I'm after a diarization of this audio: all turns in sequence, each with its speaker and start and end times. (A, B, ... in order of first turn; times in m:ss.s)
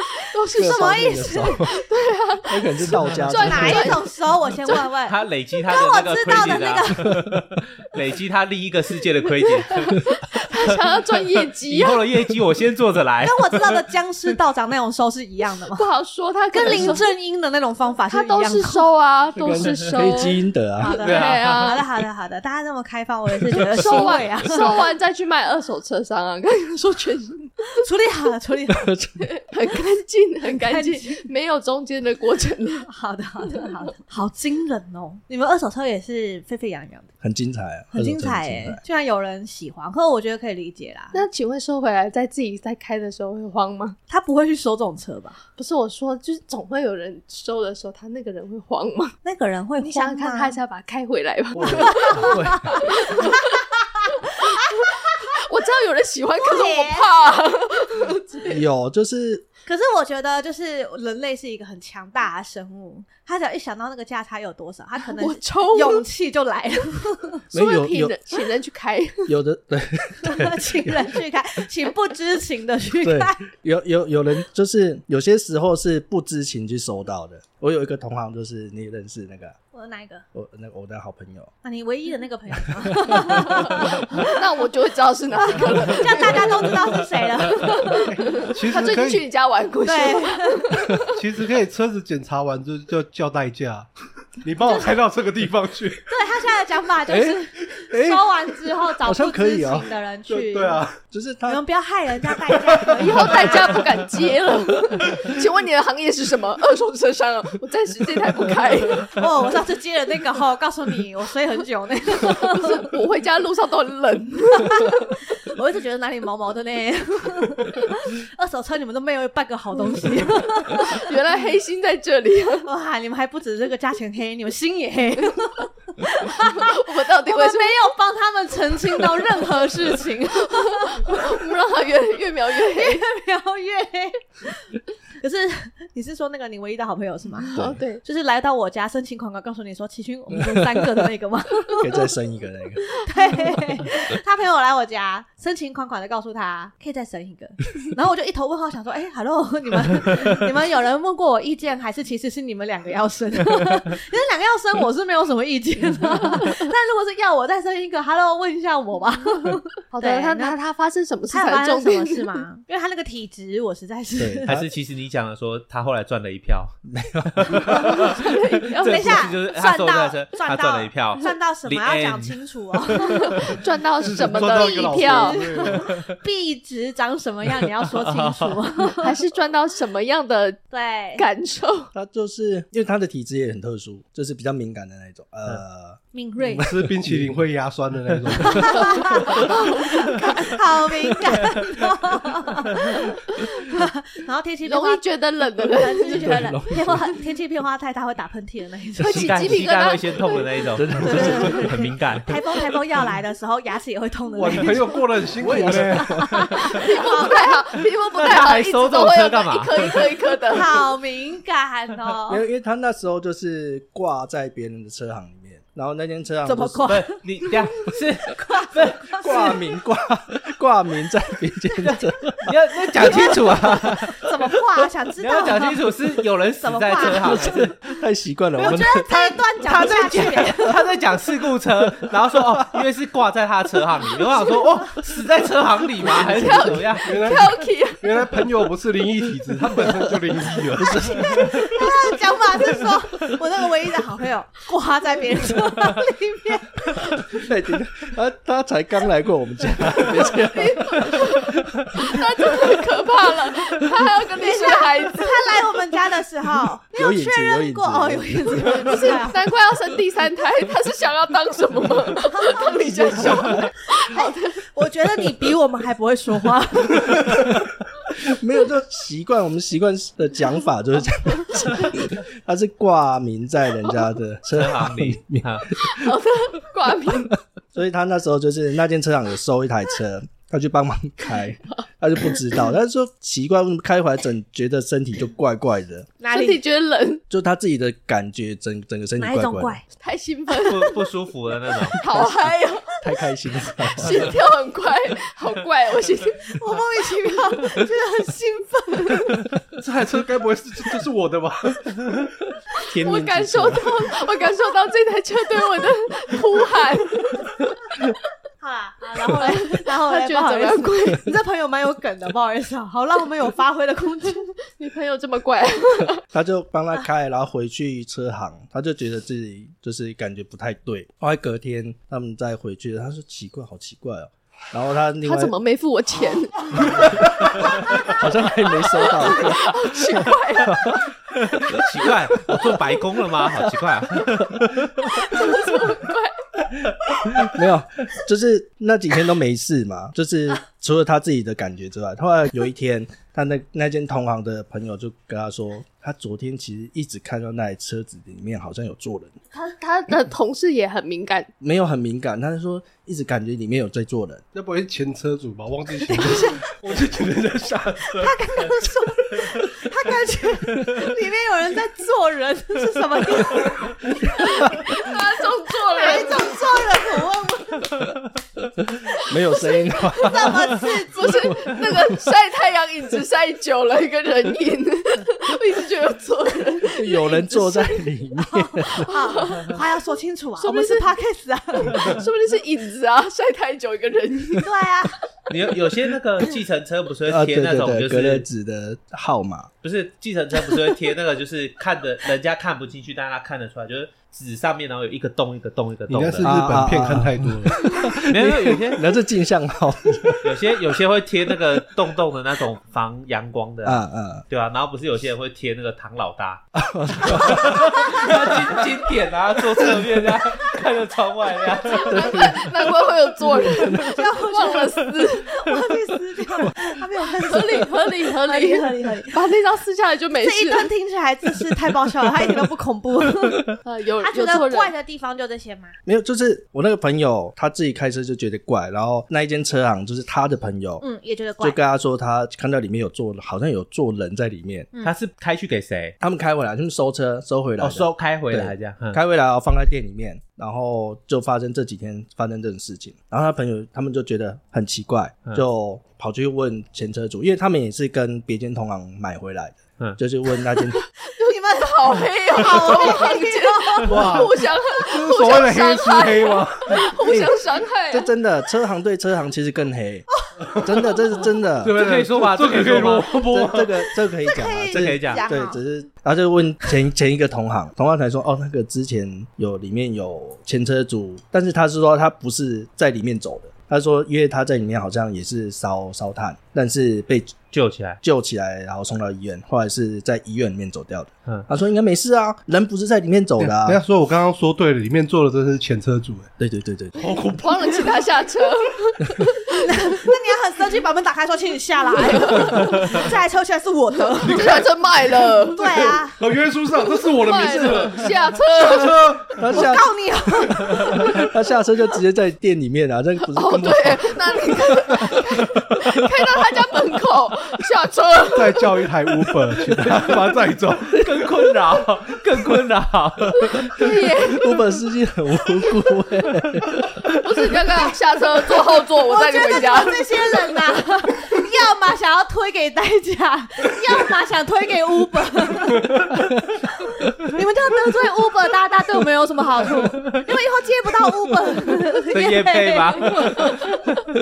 0:00.2-0:04.1 A
0:00.5-0:01.8 B
0:00.6-0:01.6 C
0:02.5-0:04.0 B
0:03.3-0:07.1 C
0:05.1-0:10.0 D
0:09.4-0:12.0 A
0:11.7-0:13.8 D
0:13.2-0:15.8 C
0:15.7-0:17.1 A
0:16.5-0:18.9 C
0:16.6-0:17.0 B
0:18.1-0:21.8 A
0:19.4-0:21.0 B
0:19.6-0:19.8 D
0:20.8-0:24.8 C
0:21.0-0:21.8 D
0:23.5-0:27.5 A
0:27.8-0:28.9 C
0:28.7-0:29.2 B
0:29.4-0:32.9 A
0:30.5-0:31.2 C
0:32.9-0:37.1 C
0:37.2-0:38.8 B
0:37.9-0:41.2 C
0:41.1-0:44.0 A
0:44.1-0:45.4 C
0:45.6-0:49.2 A
0:49.2-0:50.6 C
0:49.8-0:53.6 A
0:51.6-0:52.8 B
0:51.8-0:54.0 C
0:54.2-0:58.4 A
0:56.4-0:57.1 C
0:58.5-0:59.4 B
0:59.7-1:07.4 C
1:05.1-1:06.0 A
1:07.5-1:08.2 B
1:07.5-1:09.3 A
1:09.3-1:11.1 B
1:10.2-1:13.4 C
1:13.0-1:19.6 B
1:19.7-1:20.2 C
1:20.3-1:21.5 B
1:21.6-1:24.3 C
1:23.0-1:23.5 B
1:23.8-1:26.8 A
1:25.5-1:28.1 C
1:27.6-1:31.1 A
1:28.2-1:29.3 E
1:29.8-1:30.8 C
1:31.1-1:33.9 E
1:34.4-1:36.1 E
1:34.6-1:34.9 C
1:36.1-1:40.8 C
1:37.1-1:38.0 E
1:37.9-1:38.2 B
1:39.0-1:39.9 B
1:40.3-1:41.0 E
1:41.1-1:41.6 B
1:41.5-1:43.9 C
1:42.7-1:43.0 E
1:43.0-1:49.2 A
1:49.1-1:52.9 C
1:52.2-1:55.0 A
1:54.6-2:01.1 C
2:00.6-2:02.7 A
2:02.6-2:11.4 C
2:06.4-2:07.8 A
2:10.5-2:13.0 A
2:12.6-2:22.1 C
2:17.5-2:18.0 A
2:17.5-2:17.8 B
2:21.8-2:22.9 B
2:22.9-2:40.6 C
2:39.9-2:42.4 A
2:41.3-2:44.5 C
2:44.2-2:44.7 B
2:44.5-2:46.8 D
2:46.9-2:48.2 B
2:47.4-2:52.4 D
2:47.7-2:49.2 A
2:48.8-2:53.4 C
2:53.0-2:55.4 A
2:54.0-2:55.9 E
2:54.4-2:59.2 C
2:55.8-2:56.0 D
2:58.0-2:58.6 D
2:59.0-3:00.6 A
3:00.7-3:01.3 C
3:01.2-3:01.9 A
3:01.9-3:07.4 B
3:06.1-3:06.7 C
3:06.6-3:09.1 E
3:08.4-3:15.1 C
3:09.3-3:10.1 A
3:14.7-3:16.5 A
3:15.6-3:19.6 C
3:16.1-3:17.1 B
3:19.0-3:21.5 A
3:19.0-3:22.4 D
3:20.8-3:21.9 B
3:21.0-3:25.0 C
3:24.4-3:26.2 E
3:25.4-3:26.6 B
3:25.5-3:27.6 C
3:26.6-3:30.9 A
3:28.1-3:30.2 D
3:30.5-3:32.4 C
3:32.3-3:37.0 B
3:36.4-3:39.6 C
3:36.9-3:39.2 D
3:39.1-3:44.0 B
3:42.4-3:44.2 D
3:43.0-3:45.9 C
3:45.2-3:47.8 D
3:46.6-3:47.6 C
3:47.1-3:50.8 B
3:48.6-3:50.7 C
3:49.8-3:57.1 D
3:52.0-3:52.8 B
3:56.1-3:58.1 A
3:57.0-4:01.2 E
3:59.8-4:00.2 B
4:00.8-4:01.9 B
4:00.8-4:07.1 C
4:07.3-4:11.6 B
4:10.0-4:15.5 A
4:14.4-4:19.5 C
4:17.0-4:19.1 B
4:18.6-4:24.6 A
4:22.3-4:23.5 C
4:22.8-4:23.7 B
4:24.1-4:27.4 C
4:28.2-4:36.1 B
4:34.5-4:35.7 D
4:35.7-4:37.4 A
4:37.7-4:46.1 B
4:46.2-4:47.2 A
4:46.3-4:46.6 C
4:47.3-4:49.8 B
4:49.2-4:49.8 C
4:50.0-4:51.1 A
4:50.6-4:52.0 D
4:51.9-4:53.0 A
4:52.1-4:52.5 B
4:53.0-4:54.3 B
4:53.8-4:56.4 A
4:56.5-4:59.4 C
4:59.8-5:02.3 E
5:02.9-5:03.9 B
5:03.0-5:07.5 A
5:08.6-5:14.6 C
5:09.3-5:11.3 A
5:14.7-5:16.2 A
5:16.3-5:25.6 B
5:25.2-5:27.1 A
5:26.8-5:32.8 B
5:28.7-5:31.0 A
5:31.7-5:35.0 D
5:33.4-5:34.6 B
5:35.0-5:36.4 A
5:37.4-5:49.4 B
5:49.5-5:51.5 A
5:51.6-5:54.4 B
5:54.5-5:58.4 E
5:56.1-5:56.7 C
5:58.0-6:05.2 C
6:04.4-6:06.6 A
6:05.9-6:07.9 C
6:09.2-6:12.1 B
6:09.5-6:11.4 C
6:11.1-6:18.1 A
6:17.0-6:19.1 B
6:18.4-6:22.1 C
6:19.1-6:19.8 A
6:20.6-6:21.1 A
6:21.8-6:24.7 A
6:24.6-6:25.2 C
6:25.5-6:28.5 D
6:27.3-6:29.7 B
6:29.8-6:36.6 D
6:36.1-6:37.8 E
6:36.4-6:40.6 B
6:38.2-6:39.1 D
6:40.4-6:46.7 D
6:43.8-6:44.4 B
6:46.8-6:48.6 B
6:47.2-6:52.6 D
6:51.9-6:55.5 A
6:53.6-6:54.0 B
6:53.9-6:59.4 C
6:57.4-7:00.9 A
7:00.4-7:06.0 C
7:03.8-7:04.9 A
7:06.0-7:11.0 B
7:11.0-7:11.8 C
7:11.6-7:14.9 B
7:15.0-7:16.2 D
7:16.2-7:31.0 B
7:17.8-7:19.2 D
7:31.4-7:38.3 A
7:31.4-7:34.2 C
7:34.0-7:37.1 E
7:37.2-7:42.0 B
7:41.8-7:44.1 E
7:41.9-7:43.4 D
7:43.3-7:57.6 B
7:44.4-7:45.8 C
7:44.9-7:45.4 D
7:57.7-7:58.2 D
7:58.2-8:04.0 B
8:03.6-8:06.5 E
8:06.6-8:07.4 B
8:07.2-8:08.1 E
8:07.4-8:10.2 A
8:09.8-8:14.9 C
8:12.2-8:13.2 A
8:14.5-8:16.1 A
8:14.5-8:14.9 E
8:15.5-8:19.7 E
8:15.7-8:16.4 C
8:17.1-8:19.5 A
8:19.6-8:20.1 B
8:19.7-8:21.4 C
8:21.1-8:24.6 B
8:23.4-8:29.0 A
8:28.5-8:31.3 E
8:31.2-8:34.1 D
8:33.8-8:34.8 A
8:34.5-8:37.0 B
8:37.4-8:40.4 A
8:39.2-8:46.3 C
8:47.0-8:53.4 C
8:52.3-8:54.2 D
8:53.3-8:54.0 A